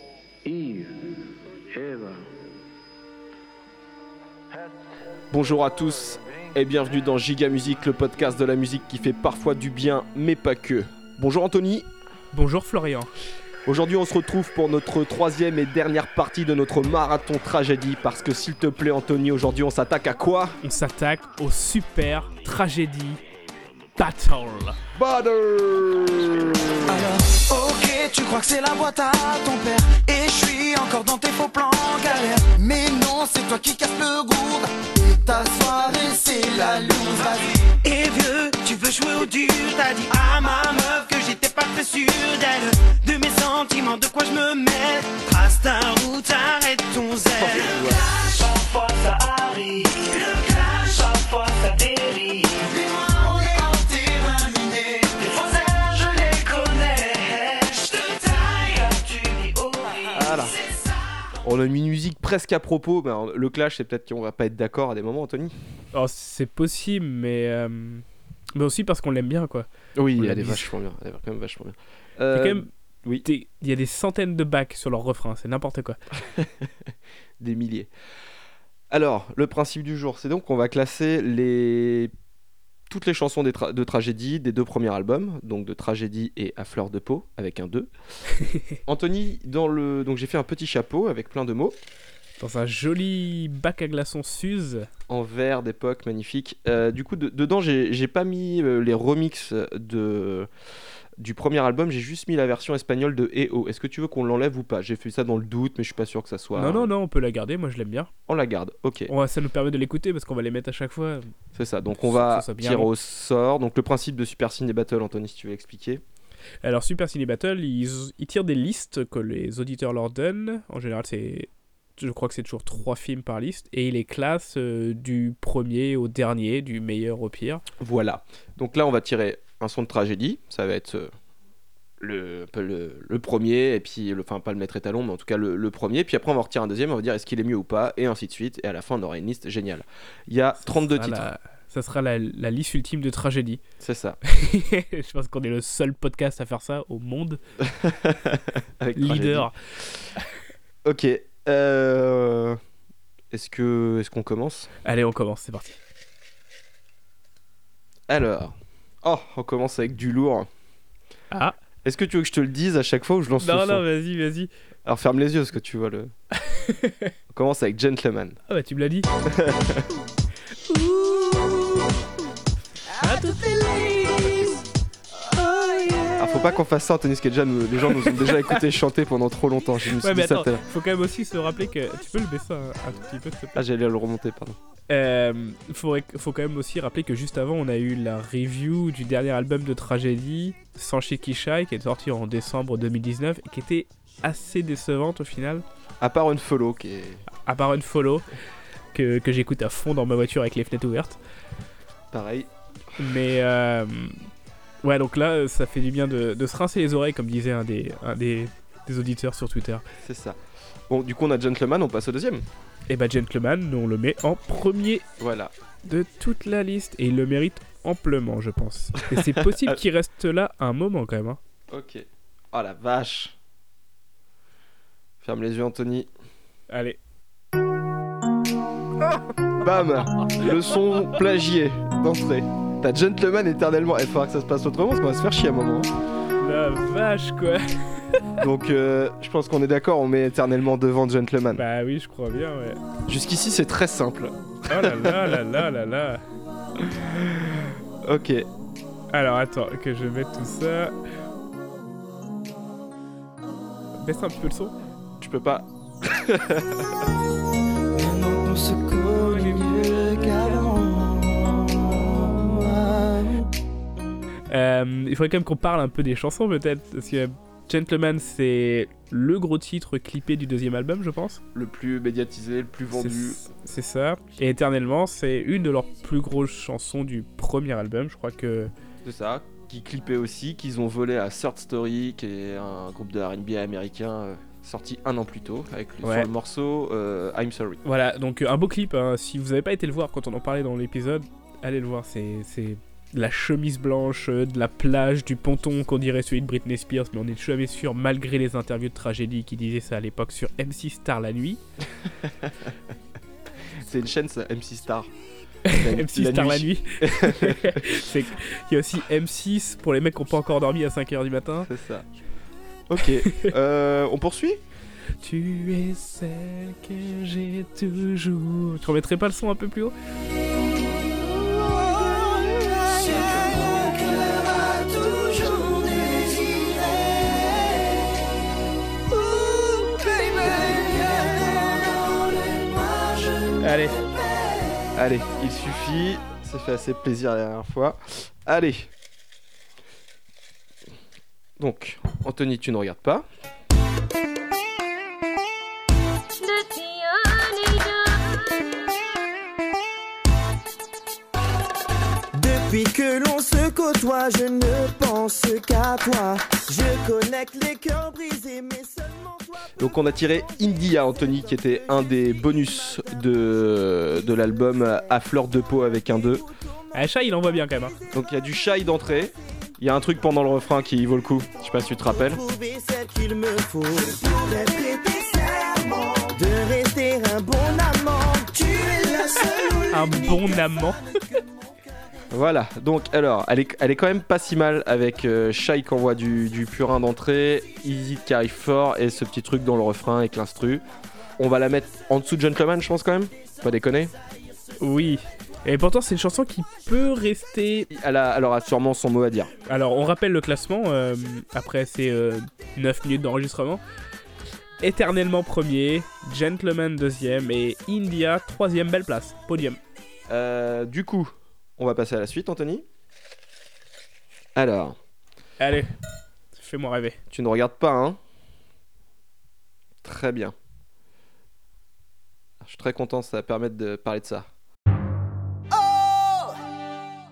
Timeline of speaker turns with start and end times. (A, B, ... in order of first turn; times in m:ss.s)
0:00.4-0:02.2 A
0:04.5-0:04.8 A
0:05.3-0:11.9 B
0:06.1-0:06.5 A
0:12.3-0:13.1 C
0:13.6-0:20.6 B
0:20.6-0:23.2 C
0:24.0-0:24.8 C
0:25.0-0:26.5 B
0:26.9-0:34.7 D
0:35.2-0:51.1 D
0:47.4-0:48.0 B
0:52.5-1:00.3 D
1:00.1-1:00.6 B
1:01.4-1:05.5 B
1:05.9-1:10.7 C
1:10.0-1:13.2 B
1:12.3-1:12.7 C
1:13.2-1:16.0 C
1:16.3-1:16.7 B
1:17.4-1:17.9 B
1:18.9-1:22.1 B
1:22.9-1:27.9 B
1:28.4-1:28.8 C
1:28.8-1:31.8 B
1:32.4-1:34.9 C
1:35.1-1:40.5 B
1:41.2-1:46.9 B
1:46.6-1:48.1 C
1:48.3-1:49.1 B
1:49.1-1:51.3 C
1:51.5-1:56.0 B
1:52.0-1:52.9 C
1:56.6-2:07.6 C
2:07.8-2:11.1 B
2:12.0-2:21.3 B
2:20.6-2:23.6 C
2:23.8-2:24.2 B
2:24.2-2:27.4 C
2:27.6-2:30.0 B
2:28.9-2:29.5 C
2:30.8-2:32.6 B
2:33.3-2:34.7 B
2:34.8-2:35.8 C
2:38.1-2:40.5 B
2:41.3-2:41.6 C
2:41.8-2:43.8 B
2:43.4-2:44.5 C
2:44.8-2:46.1 B
2:46.4-2:47.1 C
2:47.3-2:48.4 B
2:48.5-2:49.1 C
2:49.2-2:49.8 B
2:50.6-2:51.8 C
2:53.0-2:54.6 C
2:55.3-2:56.4 C
2:56.2-3:00.6 B
2:57.9-2:58.6 C
3:00.0-3:03.6 C
3:03.5-3:04.6 B
3:04.9-3:15.6 C
3:16.0-3:17.2 B
3:17.4-3:18.2 C
3:18.9-3:21.2 C
3:22.1-3:22.5 B
3:23.0-3:24.2 C
3:24.8-3:29.8 C
3:30.0-3:30.4 B
3:30.9-3:32.4 B
3:32.9-3:35.0 C
3:35.2-3:35.5 B
3:35.8-3:41.4 C
3:39.1-3:39.8 B
3:41.7-3:43.4 B
3:45.2-3:46.1 B
3:46.7-3:47.0 C
3:49.6-3:55.9 B
3:56.4-3:58.2 C
3:58.4-4:01.6 B
4:01.6-4:02.8 C
4:03.1-4:05.4 B
4:04.7-4:06.2 C
4:06.8-4:08.5 B
4:09.1-4:10.9 C
4:14.0-4:14.7 C
4:15.2-4:16.9 B
4:17.9-4:23.5 E
4:19.2-4:20.7 C
4:24.5-4:31.4 C
4:31.5-4:33.4 B
4:32.9-4:38.7 C
4:39.0-4:47.8 B
4:46.0-4:46.3 C
4:47.8-5:01.6 C
5:02.2-5:02.5 B
5:03.8-5:05.1 B
5:05.7-5:11.7 C
5:05.7-5:08.0 B
5:11.6-5:12.0 B
5:12.9-5:14.6 B
5:13.2-5:13.5 C
5:15.2-5:19.9 C
5:22.8-5:28.2 D
5:23.2-5:24.0 E
5:25.1-5:26.1 E
5:29.5-5:34.8 D
5:30.3-5:31.7 E
5:33.6-5:34.0 C
5:34.9-5:38.9 B
5:41.6-5:43.2 B
5:52.3-5:59.7 E
5:59.8-6:06.5 B
6:06.9-6:07.9 C
6:08.1-6:12.4 B
6:12.1-6:14.9 E
6:14.0-6:16.3 D
6:16.3-6:21.4 E
6:18.6-6:20.4 D
6:19.9-6:21.0 C
6:22.3-6:30.8 B
6:31.4-6:34.1 B
6:34.8-6:37.9 C
6:37.9-6:39.5 B
6:39.6-6:43.8 C
6:44.8-6:49.8 C
6:50.3-6:52.8 B
6:54.5-6:55.0 B
6:55.6-6:55.9 C
6:56.5-6:57.2 C
6:57.3-6:58.2 B
7:00.0-7:00.5 B
7:02.6-7:04.5 B